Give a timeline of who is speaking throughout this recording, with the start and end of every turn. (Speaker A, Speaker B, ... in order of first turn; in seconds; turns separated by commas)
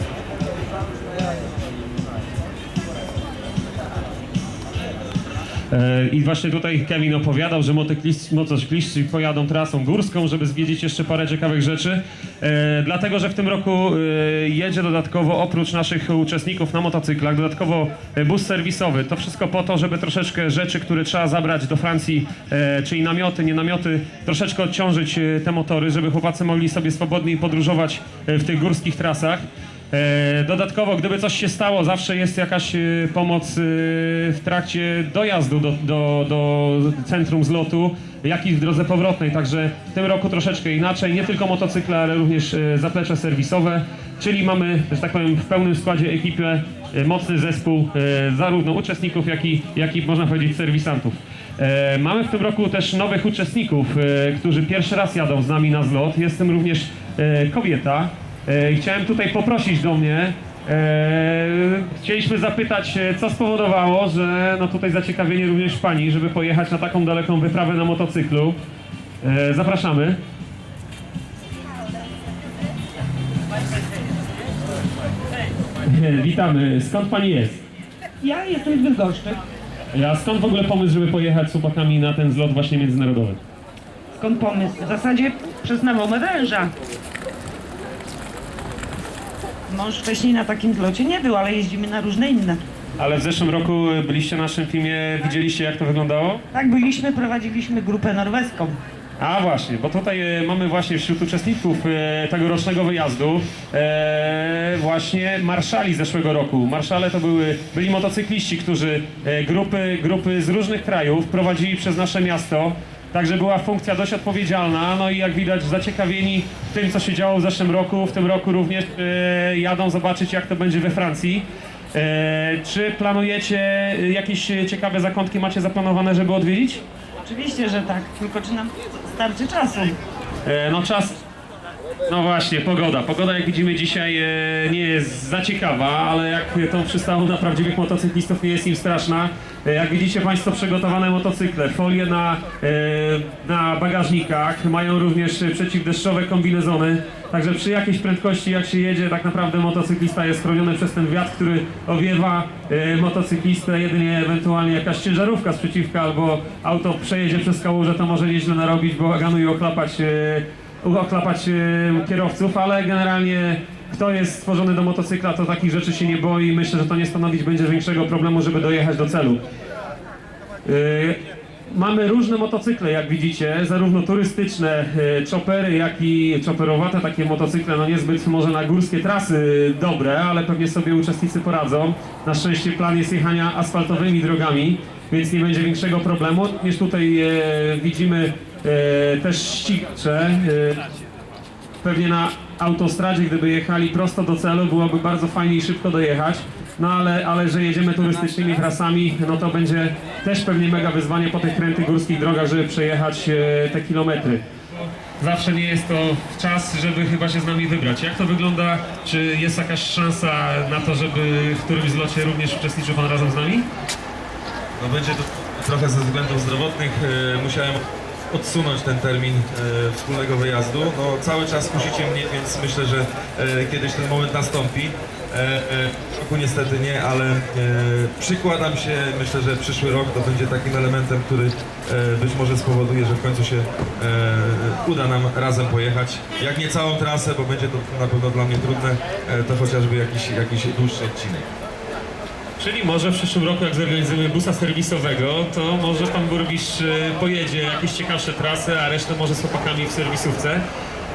Speaker A: 5.7-68.6, Speaker A: 69.2-70.2, Speaker A: 75.9-77.6, Speaker B: 78.2-79.4, Speaker A: 79.9-83.4, Speaker B: 84.2-86.7, Speaker B: 89.7-92.6, Speaker A: 93.0-96.4, Speaker B: 96.5-98.8, Speaker A: 99.2-126.8, Speaker B: 127.2-130.0, Speaker A: 130.4-131.2, Speaker A: 132.1-169.4, Speaker A: 170.7-190.8, Speaker A: 191.8-204.4, Speaker A: 205.2-213.7, Speaker C: 214.8-241.5, Speaker A: 242.6-250.6